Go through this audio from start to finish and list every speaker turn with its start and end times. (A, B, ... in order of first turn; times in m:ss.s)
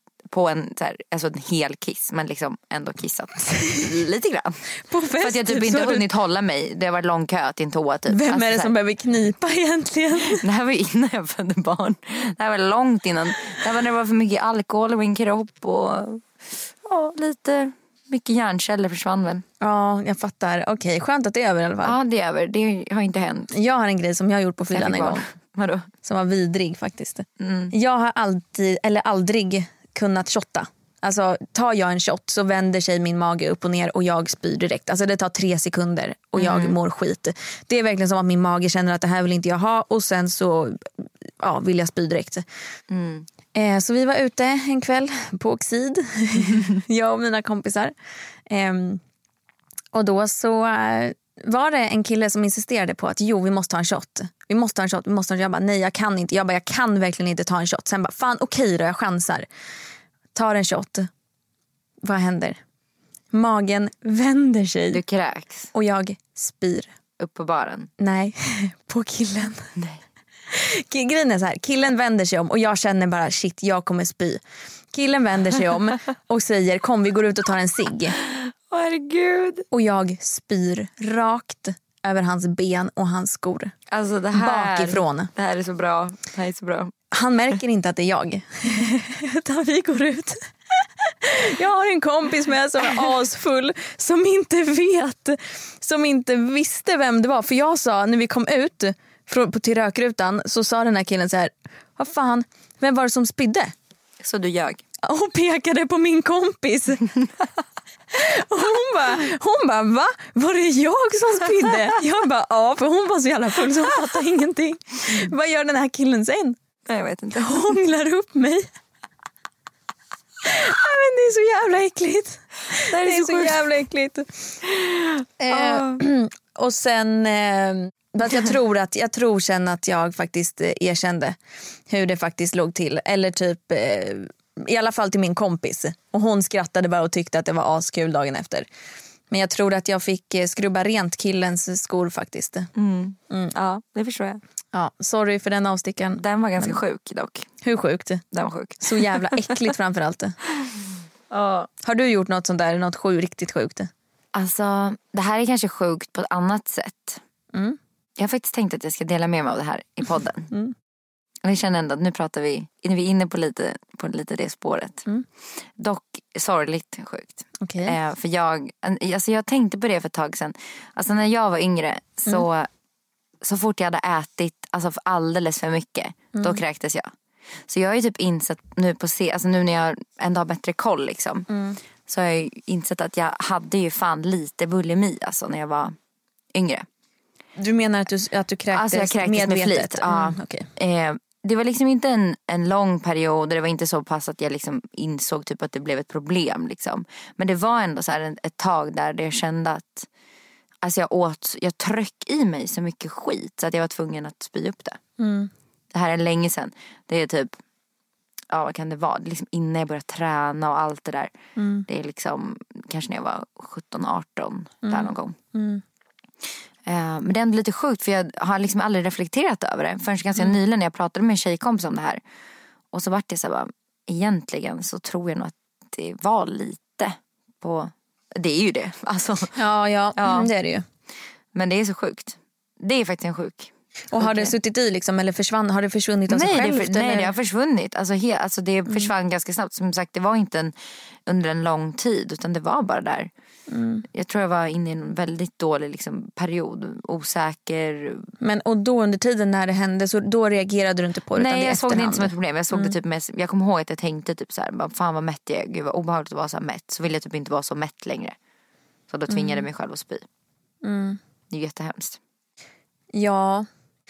0:00.3-0:04.6 A
0:04.9-0:06.1 B
0:05.2-0:08.7 A
0:08.1-0:10.4 B
0:10.2-0:19.4 A
0:19.6-0:22.0 B
0:21.8-0:23.5 A
0:23.5-0:25.2 B
0:24.7-0:25.9 A
0:26.0-0:42.4 B
0:27.4-0:27.7 A
0:36.4-0:36.8 A
0:42.9-0:43.3 A
0:43.5-0:47.9 B
0:48.5-0:49.0 B
0:49.9-0:59.5 B
1:00.3-1:01.1 B
1:02.0-1:02.6 B
1:03.3-1:05.0 B
1:04.9-1:05.7 A
1:05.7-1:06.9 B
1:07.2-1:07.9 A
1:08.0-1:09.7 B
1:10.5-1:14.4 B
1:14.9-1:18.2 B
1:18.2-1:19.7 A
1:19.7-1:23.7 B
1:23.9-1:26.9 A
1:24.3-1:25.3 B
1:27.1-1:43.7 B
1:44.2-1:44.8 A
1:45.0-1:47.1 B
1:48.1-1:56.6 B
1:56.9-1:57.7 A
1:57.4-1:58.7 B
2:00.4-2:04.4 B
2:02.8-2:03.7 A
2:04.7-2:06.0 A
2:05.4-2:11.4 B
2:11.9-2:18.7 B
2:19.3-2:22.7 B
2:22.8-2:24.4 A
2:24.7-2:26.8 B
2:26.2-2:27.5 A
2:27.6-2:28.2 B
2:28.3-2:29.6 A
2:28.8-2:30.4 B
2:31.3-2:31.7 A
2:31.8-2:33.9 B
2:34.3-2:37.2 A
2:37.5-2:37.8 B
2:38.2-2:40.5 A
2:41.4-2:45.1 A
2:45.8-2:52.7 A
2:47.6-2:48.0 B
2:53.4-2:57.1 A
2:56.3-2:56.6 B
2:57.7-3:01.5 A
3:01.5-3:01.8 B
3:02.1-3:06.0 A
3:06.5-3:06.9 A
3:07.6-3:10.7 B
3:08.7-3:20.1 A
3:20.8-3:25.0 A
3:25.2-3:25.5 B
3:25.9-3:27.6 A
3:28.5-3:31.3 A
3:31.6-3:31.9 B
3:31.9-3:35.4 A
3:34.8-3:35.8 B
3:36.9-3:42.2 A
3:42.9-3:49.6 A
3:49.6-3:50.8 B
3:50.2-3:50.5 A
3:51.6-3:54.5 A
3:54.1-3:57.3 B
3:56.3-4:00.7 A
4:01.3-4:03.3 A
4:03.7-4:04.0 B
4:04.1-4:08.3 A
4:08.4-4:12.9 B
4:11.4-4:18.4 A
4:19.1-4:20.2 A
4:19.3-4:19.6 B
4:20.8-4:21.2 B
4:21.5-4:22.2 A
4:23.1-4:23.7 B